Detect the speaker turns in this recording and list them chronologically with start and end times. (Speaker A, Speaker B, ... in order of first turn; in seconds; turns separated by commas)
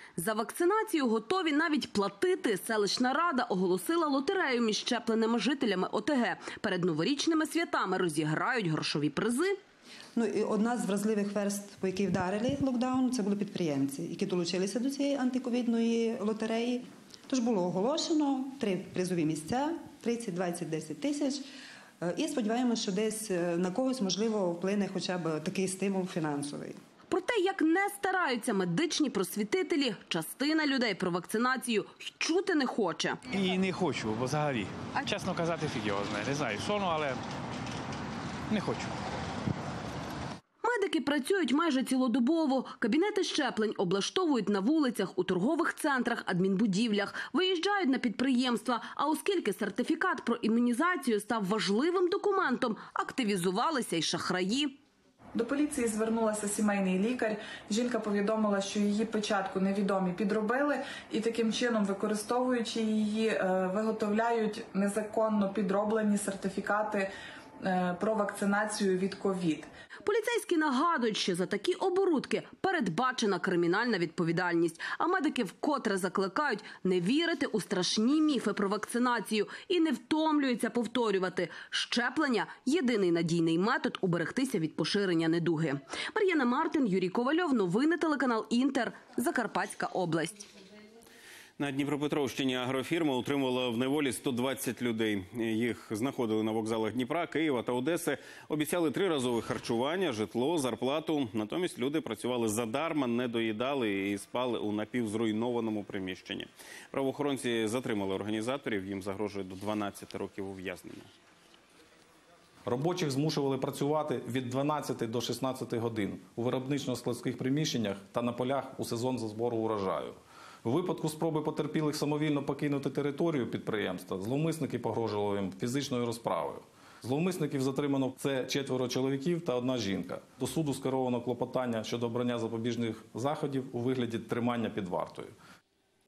Speaker A: 0.1-9.6, Speaker B: 10.2-21.4, Speaker B: 22.0-26.8, Speaker A: 27.1-33.2, Speaker C: 33.4-37.2, Speaker C: 38.5-38.9, Speaker A: 40.6-54.8, Speaker D: 55.3-67.1, Speaker D: 67.7-69.7, Speaker A: 70.0-90.5, Speaker E: 91.6-111.1, Speaker F: 112.7-135.3